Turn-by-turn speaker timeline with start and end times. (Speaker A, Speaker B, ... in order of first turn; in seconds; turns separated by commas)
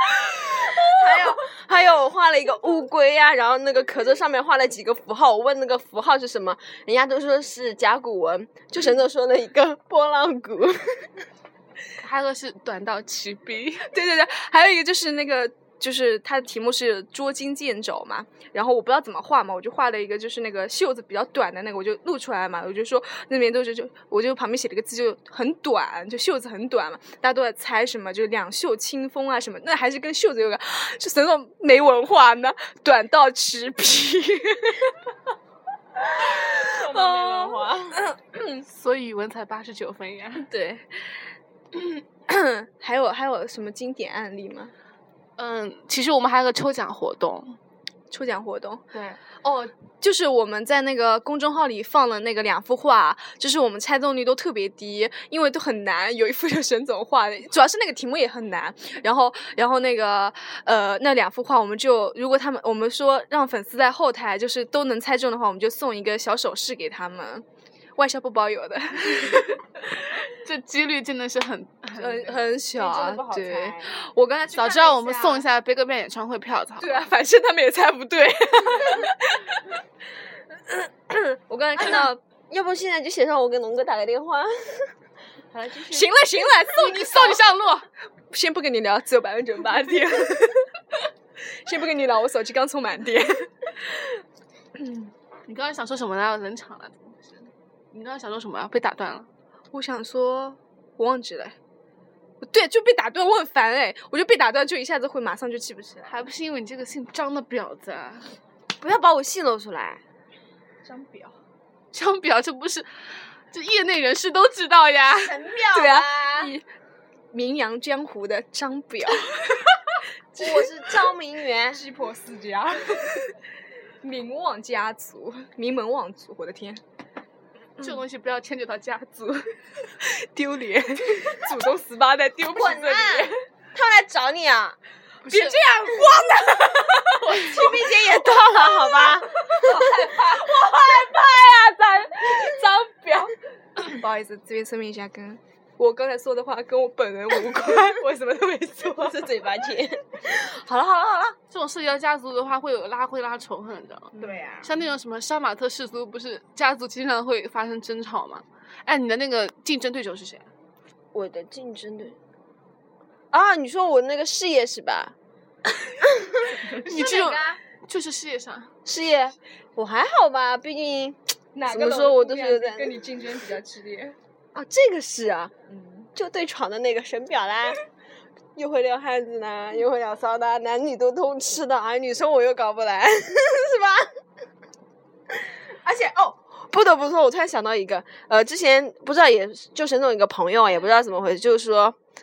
Speaker A: 0.6-11.1, Speaker B: 12.0-13.9, Speaker C: 13.9-35.1, Speaker C: 36.1-38.6, Speaker A: 36.5-38.0, Speaker B: 38.7-40.4, Speaker C: 40.4-41.1, Speaker C: 41.7-44.7, Speaker B: 45.4-47.5, Speaker C: 48.1-48.8, Speaker B: 48.9-49.2, Speaker C: 49.4-67.4, Speaker C: 68.0-69.6, Speaker B: 70.3-72.4, Speaker C: 72.0-75.4, Speaker A: 72.7-73.9, Speaker B: 74.5-77.1, Speaker C: 76.8-79.8, Speaker C: 80.7-82.2, Speaker A: 81.8-84.9, Speaker A: 85.5-86.1, Speaker C: 85.9-87.4, Speaker B: 86.7-87.8, Speaker C: 88.3-90.7, Speaker C: 91.5-94.2, Speaker C: 94.8-95.1, Speaker B: 95.5-99.3, Speaker C: 99.7-101.5, Speaker C: 102.4-106.2, Speaker B: 106.0-108.2, Speaker A: 108.8-110.0, Speaker C: 110.8-111.3, Speaker B: 111.9-112.9, Speaker B: 113.5-115.4, Speaker A: 115.1-116.5, Speaker C: 115.7-116.6, Speaker C: 117.3-119.5, Speaker C: 120.3-120.6, Speaker A: 120.3-121.8, Speaker C: 121.7-123.3, Speaker C: 124.0-126.8, Speaker B: 127.8-129.4, Speaker C: 130.0-133.3, Speaker A: 132.5-134.8, Speaker B: 135.2-135.6, Speaker C: 135.3-137.6, Speaker A: 137.2-139.9, Speaker C: 139.4-149.2, Speaker A: 149.0-151.3, Speaker B: 151.5-160.5, Speaker C: 154.2-154.4, Speaker A: 154.2-154.7, Speaker A: 161.1-162.2, Speaker A: 163.3-165.1, Speaker A: 166.1-166.6, Speaker C: 166.6-167.6, Speaker B: 166.8-168.7, Speaker A: 168.8-173.0, Speaker C: 171.5-174.2, Speaker A: 174.5-175.5, Speaker C: 175.7-176.1, Speaker A: 176.1-177.8, Speaker A: 178.6-184.1, Speaker A: 185.8-192.0